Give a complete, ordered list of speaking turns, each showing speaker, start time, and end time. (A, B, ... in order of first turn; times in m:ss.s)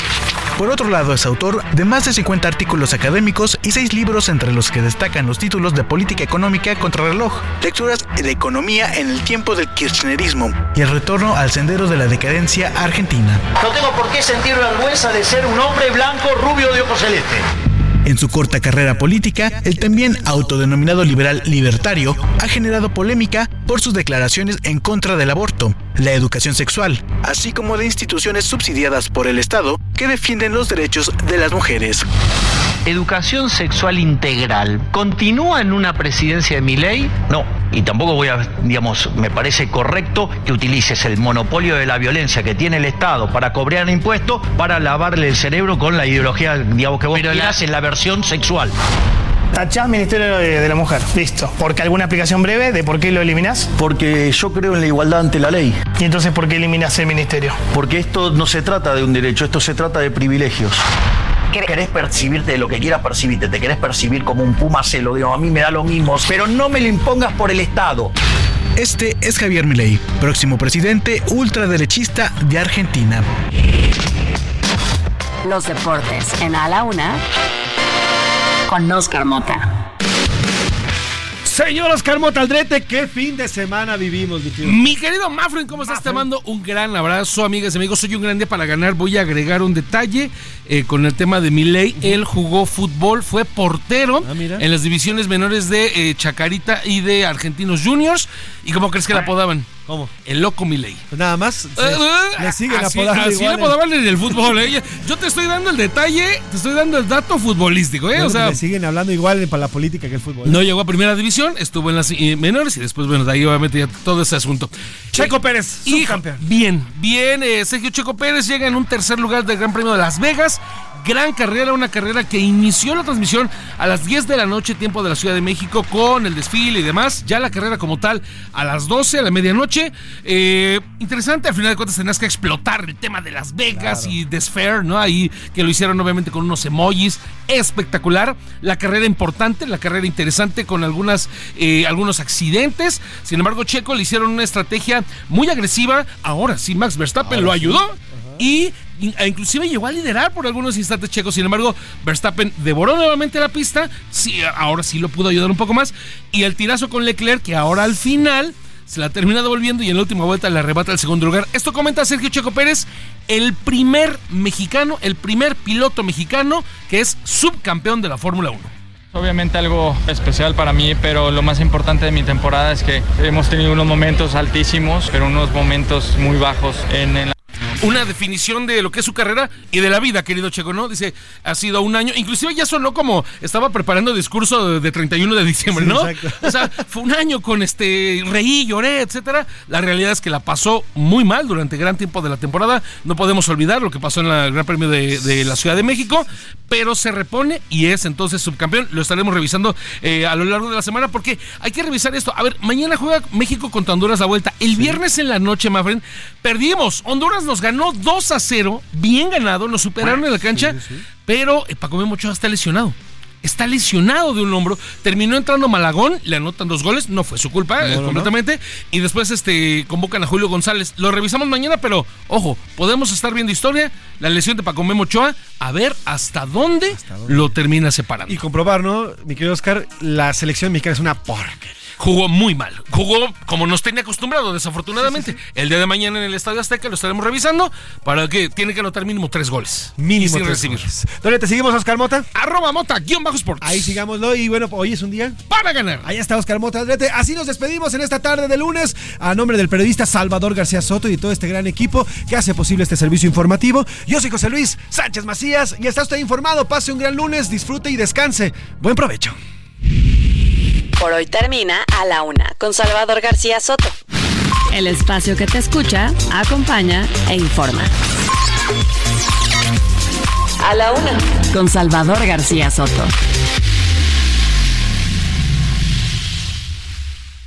0:00.6-0:13.4 A
0:13.6-0:17.5 B
0:18.1-0:32.1 A
0:32.9-0:48.7 B
0:47.1-0:47.5 C
0:49.5-0:53.7 C
0:53.8-0:55.8 B
0:54.6-0:55.0 C
0:55.9-0:57.6 C
0:57.7-1:00.8 B
1:01.5-1:08.1 B
1:08.8-1:13.2 A
1:15.4-1:17.2 D
1:18.7-1:19.7 D
1:21.4-1:24.8 E
1:24.6-1:39.7 F
1:25.7-1:26.3 E
1:34.2-1:34.7 E
1:39.9-1:40.1 E
1:40.2-1:41.0 F
1:41.1-1:44.6 E
1:41.8-1:48.6 F
1:48.2-1:50.6 E
1:50.4-1:55.3 F
1:55.1-1:56.4 E
1:55.9-2:48.7 F
2:13.7-2:14.2 E
2:27.2-2:28.4 E
2:49.1-2:57.3 G
2:57.8-3:48.4 F
3:05.7-3:06.7 E
3:24.7-3:25.0 E
3:30.0-3:31.0 E
3:37.8-3:38.3 E
3:46.9-3:47.6 E
3:48.3-3:51.8 E
3:52.0-4:00.9 F
3:55.0-3:55.4 E
4:00.0-4:02.3 E
4:02.4-4:04.0 F
4:03.6-4:05.4 E
4:05.5-4:06.1 F
4:06.0-4:19.4 E
4:21.0-4:24.0 D
4:24.7-4:27.9 D
4:30.6-4:33.1 D